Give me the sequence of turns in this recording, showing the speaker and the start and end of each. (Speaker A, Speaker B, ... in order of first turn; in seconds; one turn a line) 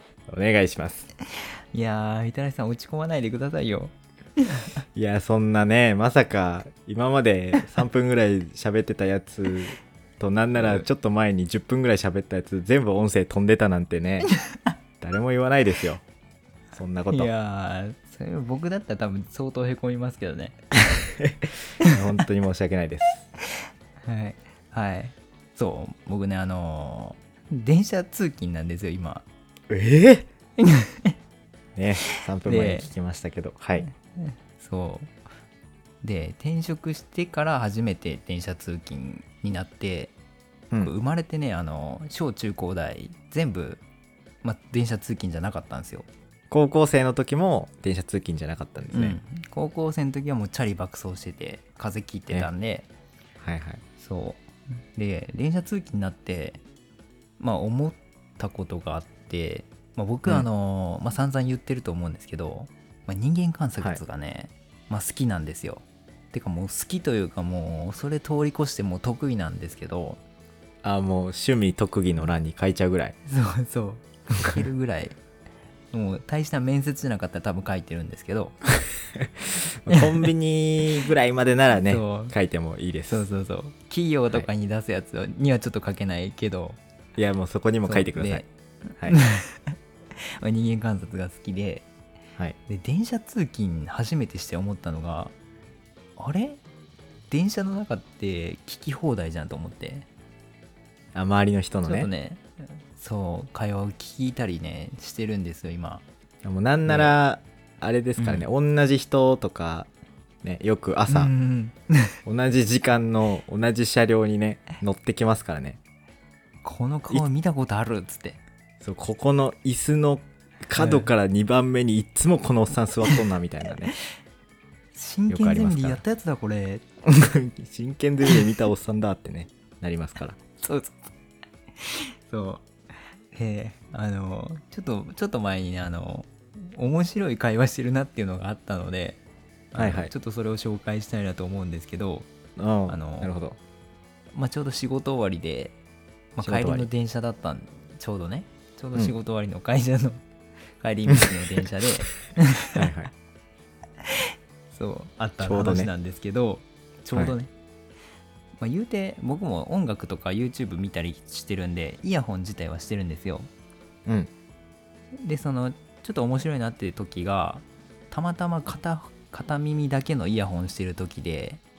Speaker A: 0.3-1.1
Speaker B: 1.7-4.7
Speaker A: 4.9-14.3
Speaker B: 10.6-10.8
Speaker A: 15.0-16.0
Speaker A: 16.7-17.3
Speaker B: 17.1-20.6
Speaker A: 21.2-23.2
Speaker B: 24.1-29.3
Speaker A: 29.7-30.3
Speaker B: 30.6-31.2
Speaker A: 31.8-33.9
Speaker B: 32.5-32.9
Speaker B: 33.8-35.1
Speaker B: 36.0-40.1
Speaker B: 40.8-43.8
Speaker B: 44.4-46.1
Speaker A: 46.5-49.2
Speaker B: 48.9-52.9
Speaker A: 53.4-53.8
Speaker B: 54.0-56.6
Speaker B: 57.4-70.2
Speaker A: 70.8-73.2
Speaker B: 73.3-75.2
Speaker B: 75.9-78.5
Speaker A: 79.2-83.3
Speaker B: 81.8-82.3
Speaker B: 83.1-86.8
Speaker A: 87.2-88.4
Speaker B: 87.9-88.5
Speaker B: 89.0-89.8
Speaker B: 90.4-91.9
Speaker B: 92.7-95.3
Speaker B: 96.2-96.6
Speaker B: 97.3-100.1
Speaker A: 101.1-102.1
Speaker B: 101.8-106.0
Speaker A: 106.4-109.9
Speaker B: 106.9-107.2
Speaker B: 108.2-108.5
Speaker A: 110.4-111.3
Speaker B: 111.1-112.2
Speaker A: 112.3-115.8
Speaker B: 116.6-118.4
Speaker A: 118.8-123.9
Speaker B: 120.8-121.1
Speaker B: 124.9-126.8
Speaker A: 125.3-126.0
Speaker A: 127.0-130.4
Speaker B: 130.6-131.0
Speaker B: 131.8-132.7
Speaker B: 133.3-139.2
Speaker B: 139.7-142.3
Speaker A: 139.8-140.1
Speaker A: 142.6-143.6
Speaker B: 142.9-143.3
Speaker B: 144.3-145.8
Speaker B: 146.4-150.2
Speaker A: 146.4-146.9
Speaker B: 150.8-152.8
Speaker A: 152.8-153.1
Speaker B: 154.0-157.5
Speaker A: 155.4-155.9
Speaker B: 158.6-163.5
Speaker B: 165.2-171.6